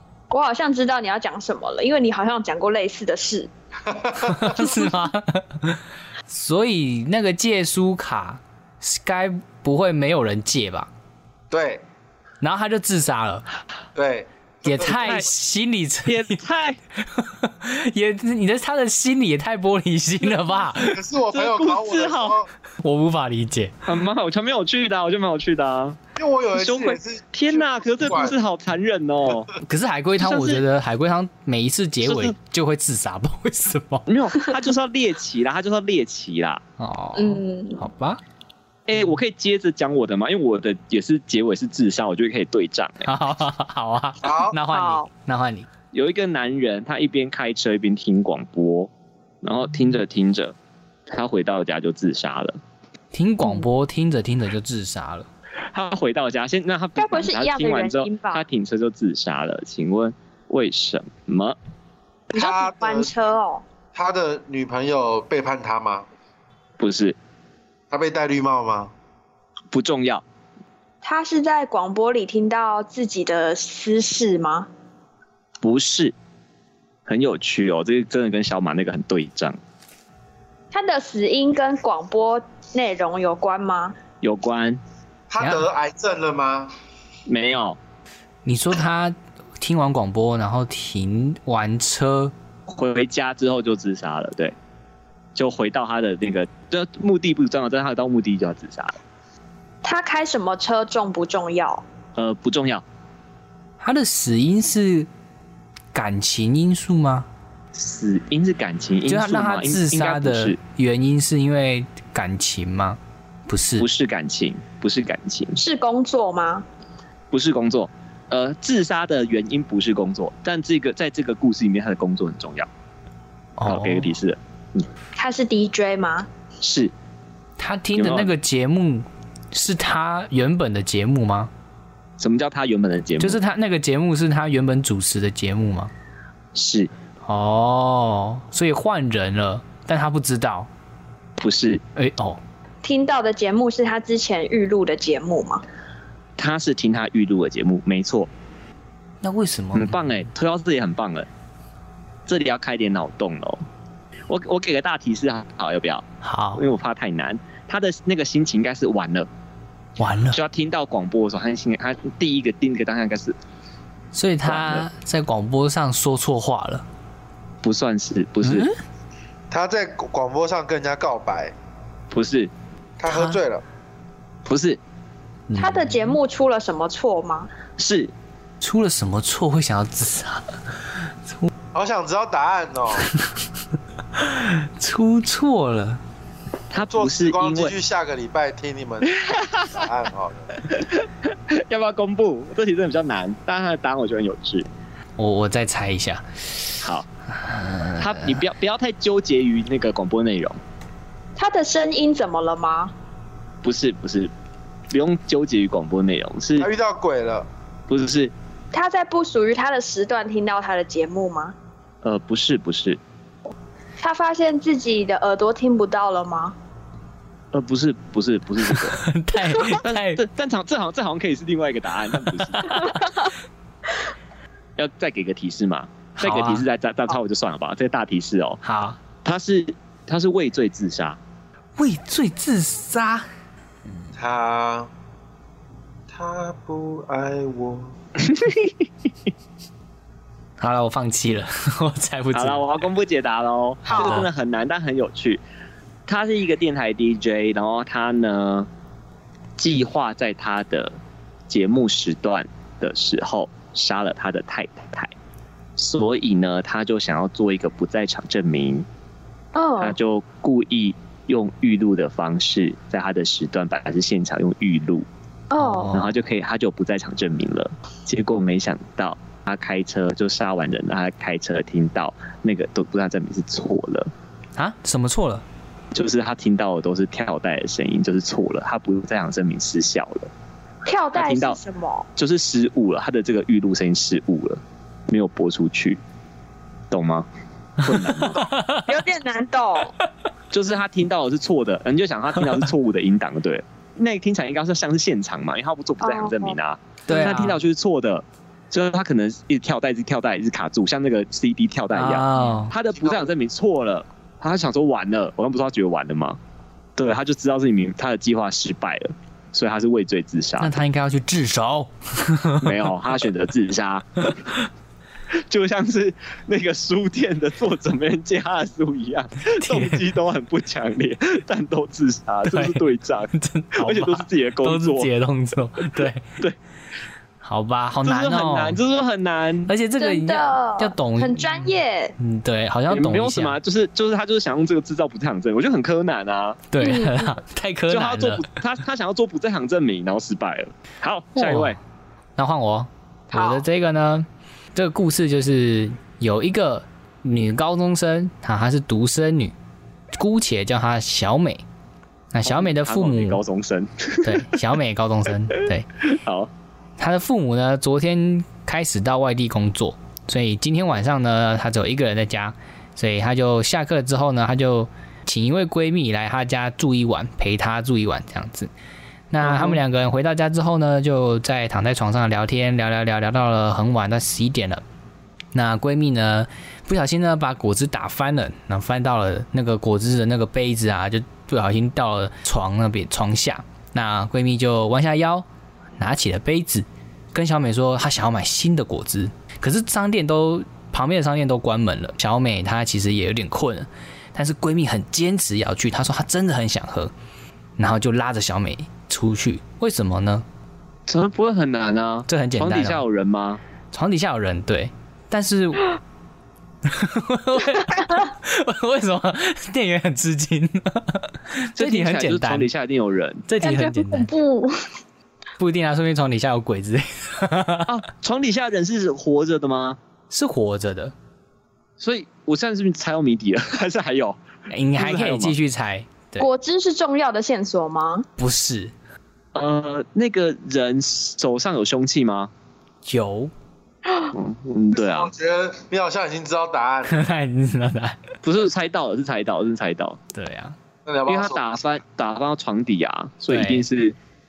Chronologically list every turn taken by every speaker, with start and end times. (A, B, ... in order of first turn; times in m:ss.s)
0:00.3-0:03.5 A
0:03.9-0:04.9 B
0:04.3-0:10.9 C
0:11.5-0:11.8 B
0:12.4-0:13.4 C
0:13.9-0:15.2 B
0:14.6-0:16.4 C
0:14.9-0:15.3 D
0:16.1-0:16.8 D
0:17.0-0:21.0 C
0:20.4-0:22.5 B
0:21.3-0:22.4 D
0:22.8-0:23.8 C
0:23.8-0:26.0 D
0:26.2-0:28.4 B
0:26.6-0:29.5 D
0:29.6-0:34.1 C
0:30.2-0:30.6 D
0:32.0-0:32.3 D
0:34.1-0:36.6 D
0:36.8-0:38.2 C
0:37.1-0:37.8 A
0:38.9-0:43.1 D
0:43.0-0:45.7 C
0:44.2-0:44.6 B
0:44.7-0:45.1 A
0:45.9-0:48.9 D
0:49.4-0:50.5 D
0:51.1-0:52.6 D
0:53.1-0:55.3 C
0:55.7-1:01.6 D
0:57.0-0:58.4 A
1:02.3-1:03.1 B
1:02.3-1:03.6 A
1:03.9-1:06.1 B
1:06.8-1:07.2 D
1:07.9-1:08.9 B
1:09.7-1:10.2 D
1:11.0-1:14.7 A
1:15.6-1:16.1 D
1:17.0-1:19.6 D
1:20.7-1:24.0 A
1:24.2-1:24.8 D
1:25.3-1:26.7 B
1:27.3-1:27.8 D
1:28.4-1:32.3 C
1:32.7-1:34.5 D
1:35.4-1:38.9 D
1:39.8-1:41.8 A
1:42.2-1:42.8 D
1:43.8-1:45.1 C
1:45.9-1:47.3 C
1:47.7-1:50.6 D
1:49.1-1:53.9 C
1:53.8-1:55.6 D
1:55.6-1:56.6 A
1:57.3-2:02.7 D
2:03.6-2:04.1 C
2:03.6-2:04.8 D
2:05.2-2:06.3 A
2:06.6-2:06.9 D
2:07.6-2:11.5 C
2:08.0-2:08.3 D
2:12.2-2:13.4 D
2:13.2-2:15.9 C
2:16.5-2:16.9 D
2:17.2-2:20.7 C
2:21.4-2:21.8 D
2:22.0-2:22.4 C
2:22.8-2:25.6 A
2:26.4-2:28.3 D
2:29.2-2:30.0 C
2:29.7-2:31.3 D
2:32.3-2:33.6 D
2:34.3-2:39.3 D
2:36.2-2:36.6 C
2:40.0-2:40.4 C
2:40.3-2:43.4 D
2:44.1-2:46.8 C
2:44.4-2:44.8 D
2:47.6-2:48.7 D
2:48.4-2:48.8 C
2:49.5-2:51.5 B
2:52.1-2:52.5 D
2:53.0-2:53.6 B
2:53.1-2:53.4 C
2:54.4-2:54.8 D
2:55.5-2:56.2 C
2:55.6-2:57.5 A
2:57.8-2:58.1 D
2:58.6-3:00.5 C
3:01.1-3:01.5 C
3:01.7-3:03.1 B
3:04.2-3:06.0 C
3:06.7-3:07.7 D
3:06.7-3:10.5 B
3:09.2-3:09.8 D
3:10.6-3:14.6 D
3:15.2-3:16.7 C
3:17.3-3:18.1 C
3:18.0-3:20.6 D
3:21.4-3:22.9 A
3:23.6-3:24.3 D
3:24.9-3:26.7 D
3:26.6-3:27.5 B
3:27.9-3:28.3 D
3:28.7-3:31.5 A
3:32.0-3:33.0 D
3:34.0-3:36.6 A
3:37.5-3:39.0 D
3:38.7-3:40.2 C
3:39.5-3:42.8 D
3:42.4-3:42.9 C
3:42.7-3:43.3 A
3:44.8-3:48.6 D
3:46.2-3:46.6 C
3:48.6-3:49.0 C
3:49.2-3:51.2 D
3:51.8-3:53.2 C
3:54.1-3:54.9 B
3:56.1-3:57.9 B
3:58.2-3:58.8 D
4:00.6-4:02.6 C
4:02.3-4:05.4 D
4:03.8-4:04.2 A
4:03.9-4:04.3 C
4:06.1-4:08.7 D
4:09.6-4:11.0 D
4:11.5-4:15.1 D
4:15.8-4:18.8 D
4:19.5-4:20.0 A
4:19.8-4:25.1 D
4:25.5-4:25.9 A
4:25.6-4:26.1 C
4:25.9-4:34.1 D
4:34.6-4:35.4 C
4:35.9-4:40.3 D
4:40.8-4:42.1 A
4:41.1-4:41.6 D
4:42.2-4:46.0 D
4:46.9-4:48.5 D
4:48.2-4:48.9 C
4:48.8-4:49.9 A
4:50.5-5:06.4 D
4:56.0-4:56.6 A
4:57.1-4:57.6 C
5:01.9-5:02.7 C
5:07.0-5:10.7 D
5:10.6-5:12.8 C
5:12.6-5:14.5 D
5:15.5-5:25.1 D
5:19.5-5:20.0 C
5:22.5-5:26.2 C
5:27.4-5:28.8 C
5:28.0-5:29.7 D
5:29.7-5:33.6 C
5:30.0-5:32.1 A
5:32.9-5:36.6 D
5:36.7-5:38.4 C
5:36.8-5:37.4 A
5:37.9-5:41.8 D
5:41.4-5:41.8 C
5:42.4-5:49.5 C
5:43.3-5:43.6 A
5:50.1-5:51.6 C
5:52.3-5:53.4 C
5:52.4-5:54.6 D
5:54.2-5:55.9 C
5:55.6-5:56.5 D
5:57.0-6:08.7 C
6:09.3-6:14.8 C
6:09.4-6:09.8 D
6:15.5-6:25.4 C
6:26.0-6:37.1 C
6:37.8-6:40.4 C
6:41.1-6:43.6 D
6:42.3-6:43.0 C
6:43.9-6:46.0 C
6:46.8-6:52.7 C
6:51.7-6:53.4 D
6:53.5-6:54.3 C
6:53.6-6:54.7 A
6:55.6-6:57.9 C
6:57.9-7:00.0 D
7:00.3-7:01.1 C
7:02.0-7:04.4 D
7:04.7-7:06.4 C
7:05.0-7:05.6 D
7:06.4-7:08.3 A
7:08.4-7:08.9 C
7:09.5-7:12.5 D
7:13.0-7:13.5 C
7:14.3-7:15.3 D
7:14.9-7:17.2 B
7:17.1-7:18.2 C
7:18.4-7:20.2 D
7:20.3-7:20.8 C
7:21.0-7:21.8 B
7:21.3-7:24.1 D
7:23.5-7:23.8 C